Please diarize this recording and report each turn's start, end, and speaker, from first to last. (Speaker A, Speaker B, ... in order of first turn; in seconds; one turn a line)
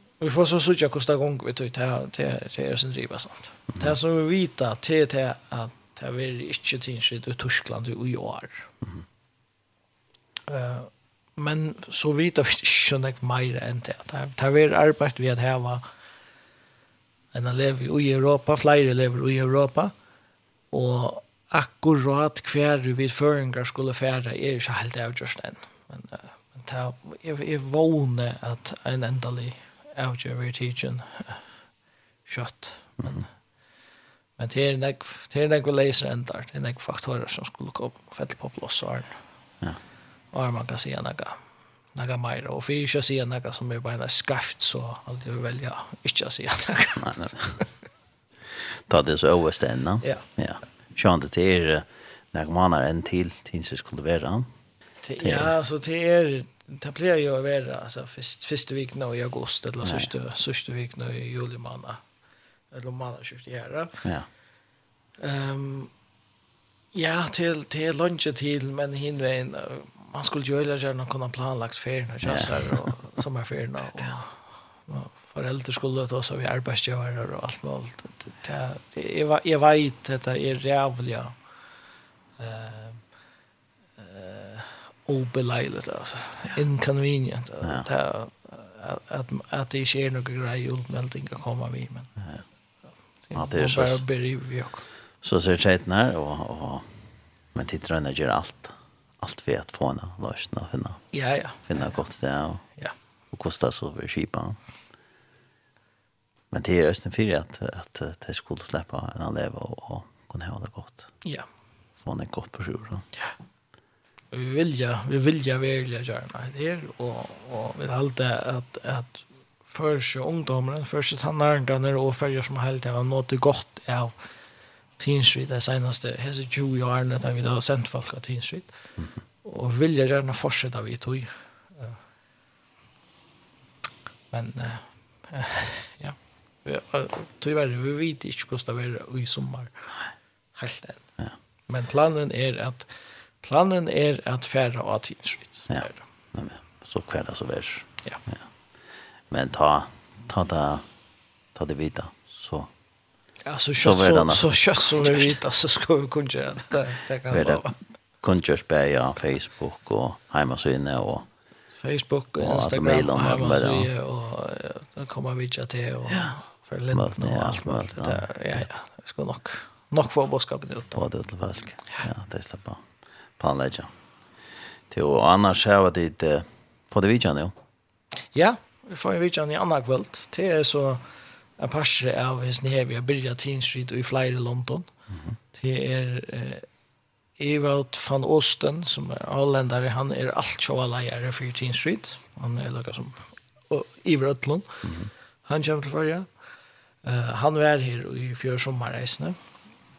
Speaker A: 0.2-8.7
Speaker A: 10.5-15.8
Speaker A: 17.3-19.9
Speaker A: 20.7-31.4
Speaker A: 32.3-33.3
Speaker B: 33.0-33.3
Speaker A: 34.4-39.2
Speaker A: 40.3-47.7
Speaker B: 47.0-47.6
Speaker B: 48.9-54.5
Speaker A: 55.0-62.0
Speaker B: 55.2-55.5
Speaker B: 59.8-60.1
Speaker A: 62.7-64.0
Speaker B: 64.0-64.3
Speaker A: 65.2-65.9
Speaker A: 66.9-81.4
Speaker B: 72.2-73.0
Speaker A: 82.4-83.0
Speaker A: 84.0-92.2
Speaker B: 87.6-87.9
Speaker B: 92.2-92.4
Speaker A: 93.3-94.9
Speaker B: 93.3-94.0
Speaker B: 95.2-96.9
Speaker B: 97.5-101.0
Speaker A: 101.1-101.9
Speaker B: 101.7-102.7
Speaker B: 103.3-104.6
Speaker B: 106.5-111.1
Speaker B: 112.0-113.1
Speaker A: 114.3-124.2
Speaker A: 125.0-128.7
Speaker A: 129.4-132.0
Speaker A: 134.3-139.9
Speaker A: 140.6-141.1
Speaker A: 141.7-146.0
Speaker B: 145.7-148.5
Speaker B: 149.3-150.9
Speaker B: 151.5-152.7
Speaker A: 153.4-157.8
Speaker B: 153.8-155.3
Speaker B: 157.3-161.3
Speaker A: 161.8-171.1
Speaker B: 162.4-163.9
Speaker B: 166.9-168.7
Speaker B: 170.9-173.9
Speaker B: 174.9-177.6
Speaker A: 178.3-181.1
Speaker A: 181.6-184.9
Speaker A: 185.5-186.7
Speaker A: 187.4-194.9
Speaker B: 194.8-195.1
Speaker A: 195.4-196.3
Speaker A: 197.0-199.4